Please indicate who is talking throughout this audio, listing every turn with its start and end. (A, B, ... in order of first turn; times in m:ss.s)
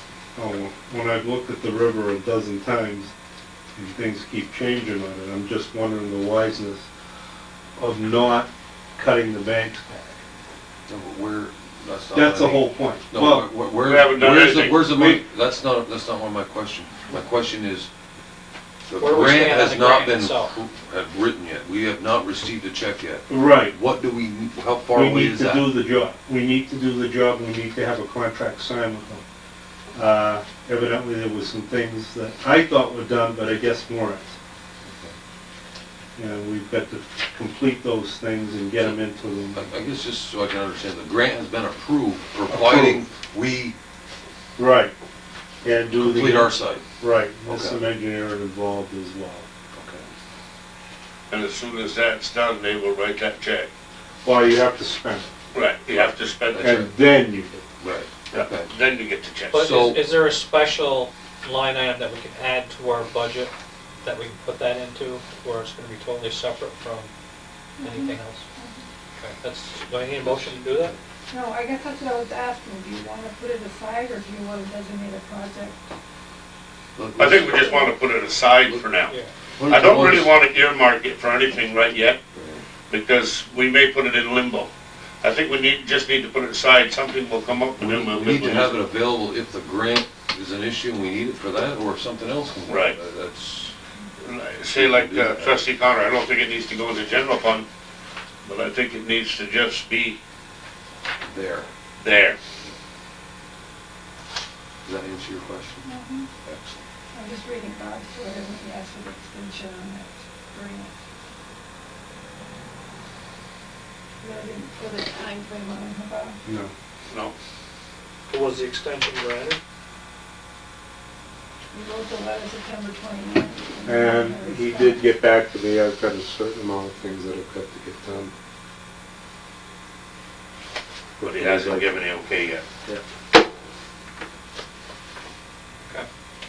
0:00.4-0:03.1 A
0:03.8-0:06.9 A
0:07.8-0:10.2 A
0:10.9-0:17.9 B
0:12.1-0:13.4 A
0:13.8-0:14.9 C
0:14.9-0:15.2 A
0:18.9-0:25.7 B
0:19.0-0:20.5 D
0:23.3-0:23.8 A
0:24.9-0:29.2 A
0:29.9-0:34.4 A
0:34.8-0:35.2 B
0:36.2-0:39.6 A
0:39.5-0:43.8 B
0:42.5-0:43.0 A
0:44.6-0:44.9 A
0:45.6-0:49.5 A
0:45.9-0:46.8 B
0:47.5-0:47.8 B
0:49.7-0:50.0 B
0:51.3-0:53.7 C
0:54.2-0:55.3 A
0:55.5-0:56.8 C
0:55.9-0:56.9 B
0:56.6-0:57.7 A
0:57.8-0:58.7 B
0:58.3-0:59.8 C
0:59.5-1:07.1 D
0:59.5-1:00.0 B
1:07.8-1:08.9 E
1:07.8-1:08.4 D
1:09.2-1:11.0 D
1:10.2-1:11.0 B
1:11.3-1:15.8 E
1:17.0-1:17.9 B
1:17.2-1:22.2 C
1:19.6-1:20.4 B
1:22.4-1:22.6 B
1:22.9-1:24.7 C
1:25.2-1:28.8 C
1:27.8-1:33.8 B
1:32.7-1:33.0 C
1:34.2-1:37.7 C
1:34.8-1:35.6 B
1:38.4-1:40.2 C
1:41.2-1:41.7 B
1:42.0-1:42.4 C
1:44.8-1:45.9 B
1:45.8-1:46.3 E
1:46.4-1:46.8 B
1:47.1-1:51.0 E
1:54.2-1:56.4 E
1:56.4-1:56.7 A
1:57.1-1:57.3 C
1:58.3-1:59.6 D
2:01.7-2:05.2 E
2:03.9-2:08.3 A
2:11.2-2:12.0 A
2:11.2-2:12.6 C